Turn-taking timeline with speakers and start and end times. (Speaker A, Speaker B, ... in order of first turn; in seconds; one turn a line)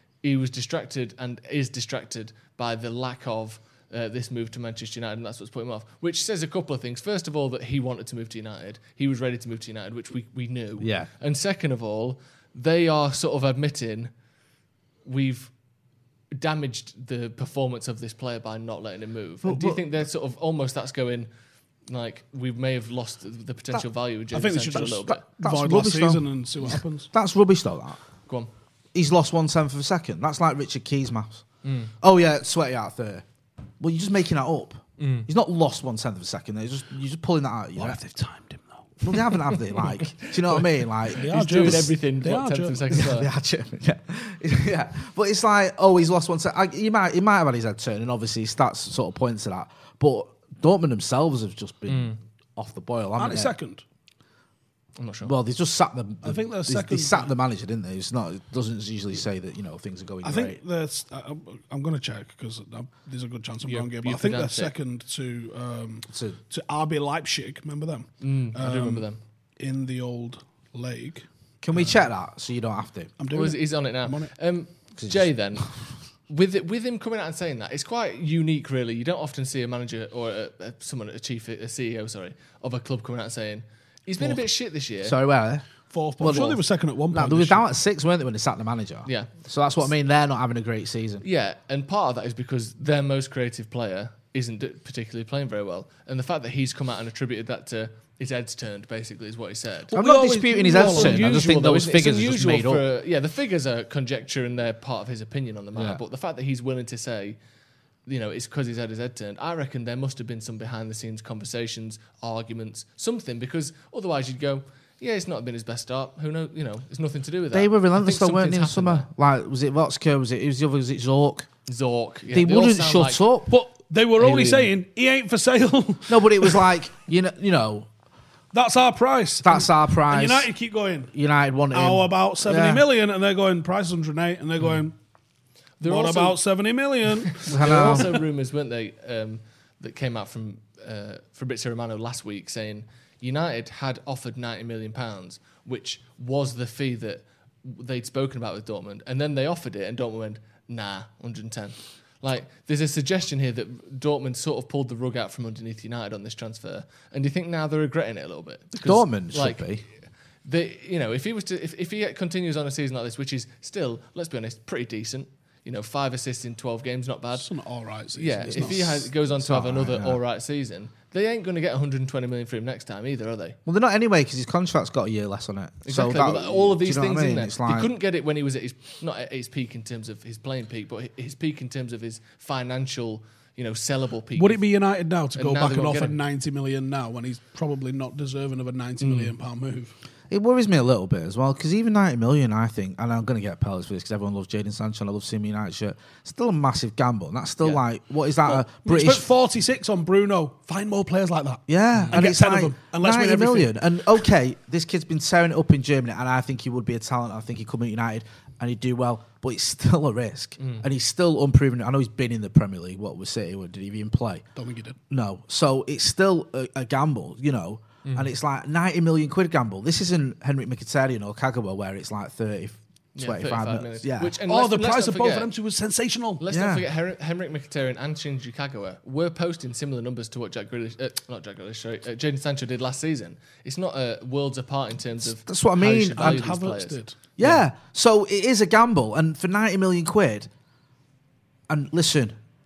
Speaker A: 0.2-14.1
Speaker B: 10.8-11.1
Speaker A: 15.1-15.5
Speaker A: 16.3-21.3
Speaker B: 19.4-19.8
Speaker A: 21.9-25.2
Speaker C: 24.3-27.1
Speaker B: 25.3-28.0
Speaker B: 28.9-31.5
Speaker A: 31.6-31.9
Speaker B: 32.0-33.2
Speaker B: 33.8-38.0
Speaker A: 35.0-35.3
Speaker C: 37.8-39.0
Speaker B: 39.0-41.9
Speaker A: 40.2-40.6
Speaker C: 41.1-43.0
Speaker A: 41.2-43.3
Speaker B: 42.9-53.5
Speaker A: 51.9-52.2
Speaker C: 53.2-53.8
Speaker A: 55.0-55.3
Speaker B: 55.2-60.6
Speaker C: 56.2-57.3
Speaker C: 60.2-72.0
Speaker A: 63.6-64.7
Speaker B: 66.1-66.4
Speaker A: 68.2-69.2
Speaker B: 71.6-73.2
Speaker C: 73.2-74.3
Speaker A: 73.3-85.2
Speaker B: 75.0-75.9
Speaker B: 84.2-91.2
Speaker C: 85.9-87.6
Speaker A: 89.0-89.3
Speaker A: 91.2-100.0
Speaker C: 99.9-101.5
Speaker B: 99.9-102.8
Speaker A: 100.7-107.4
Speaker B: 105.7-106.0
Speaker A: 108.1-119.1
Speaker B: 117.5-121.5
Speaker A: 121.7-123.2
Speaker B: 122.3-123.5
Speaker C: 123.5-126.6
Speaker A: 124.2-124.7
Speaker B: 126.1-127.9
Speaker C: 128.5-131.1
Speaker B: 129.4-130.5
Speaker B: 131.1-132.8
Speaker C: 131.7-134.9
Speaker A: 135.8-136.4
Speaker C: 135.8-138.1
Speaker A: 137.4-159.8
Speaker B: 137.5-138.1
Speaker B: 158.7-159.9
Speaker A: 160.4-167.5
Speaker C: 167.3-169.1
Speaker A: 168.1-173.6
Speaker B: 168.4-170.2
Speaker B: 173.7-177.9
Speaker A: 175.8-184.7
Speaker C: 184.3-189.9
Speaker A: 185.3-186.2
Speaker A: 189.0-189.3
Speaker B: 190.3-199.2
Speaker C: 198.5-203.7
Speaker B: 201.7-214.5
Speaker A: 210.6-210.8
Speaker C: 214.6-215.0
Speaker B: 215.1-224.4
Speaker A: 218.1-218.3
Speaker A: 223.2-225.5
Speaker C: 224.5-226.4
Speaker A: 226.4-237.6
Speaker B: 226.5-226.8
Speaker B: 235.2-236.5
Speaker C: 236.1-237.2
Speaker B: 237.4-240.5
Speaker B: 241.7-242.4